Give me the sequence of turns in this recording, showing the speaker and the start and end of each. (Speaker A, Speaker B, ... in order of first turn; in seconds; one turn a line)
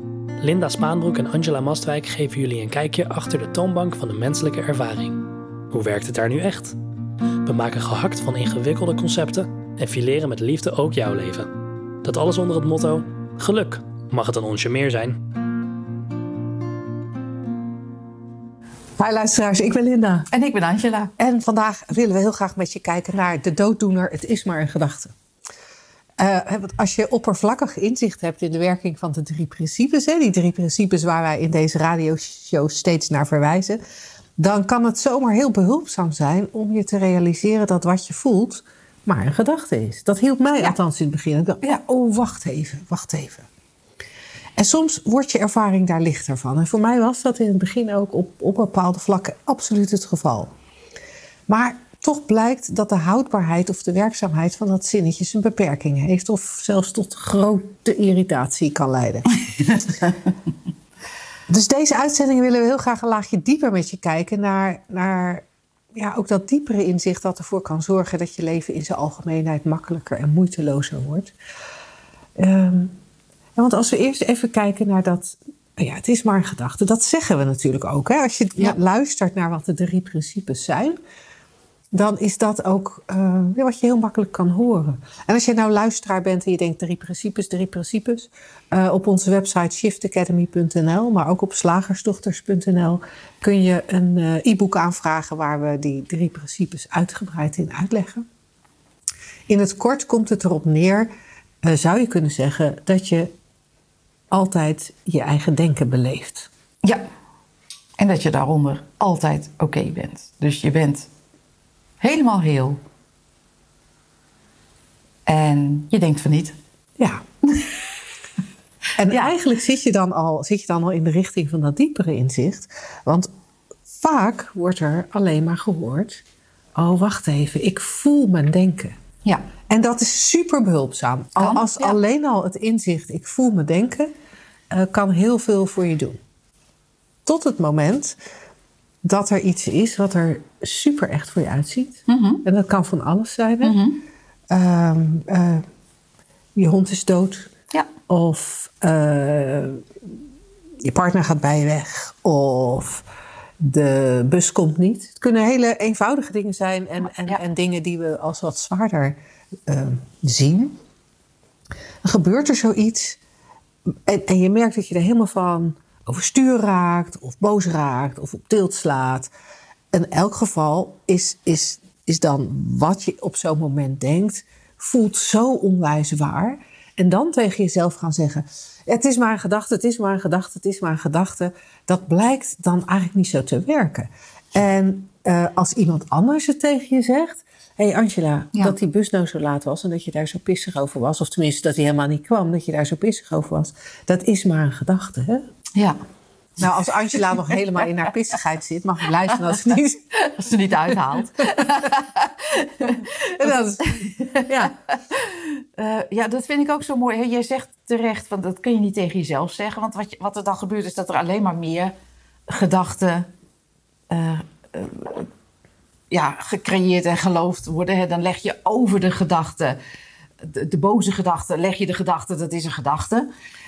Speaker A: 0.4-6.8
Speaker A: 7.4-11.5
Speaker A: 12.0-15.2
Speaker B: 19.0-20.3
Speaker C: 20.3-21.1
Speaker B: 21.2-25.1
Speaker B: 26.2-33.8
Speaker B: 34.4-43.5
Speaker B: 44.6-50.5
Speaker B: 51.5-59.9
Speaker B: 61.5-71.3
Speaker B: 72.3-73.0
Speaker B: 73.5-81.0
Speaker B: 81.9-98.2
Speaker B: 99.5-101.1
Speaker B: 101.6-103.3
Speaker B: 104.3-106.5
Speaker C: 108.0-111.1
Speaker C: 112.0-112.8
Speaker C: 115.3-116.5
Speaker B: 117.0-117.2
Speaker B: 119.0-123.3
Speaker B: 123.9-126.2
Speaker B: 126.8-128.9
Speaker B: 129.7-134.1
Speaker C: 131.3-132.0
Speaker B: 134.7-136.2
Speaker B: 137.2-138.2
Speaker B: 139.0-143.8
Speaker C: 142.1-142.4
Speaker C: 143.6-144.0
Speaker B: 144.5-145.6
Speaker B: 146.6-147.5
Speaker B: 148.1-149.8
Speaker B: 150.8-153.1
Speaker B: 153.6-160.8
Speaker B: 162.0-163.2
Speaker B: 163.9-169.3
Speaker B: 169.9-195.5
Speaker B: 196.6-200.0
Speaker C: 197.1-197.7
Speaker C: 200.2-211.9
Speaker B: 203.0-204.7
Speaker C: 212.5-213.3
Speaker C: 214.1-215.3
Speaker C: 216.1-219.8
Speaker C: 220.4-223.3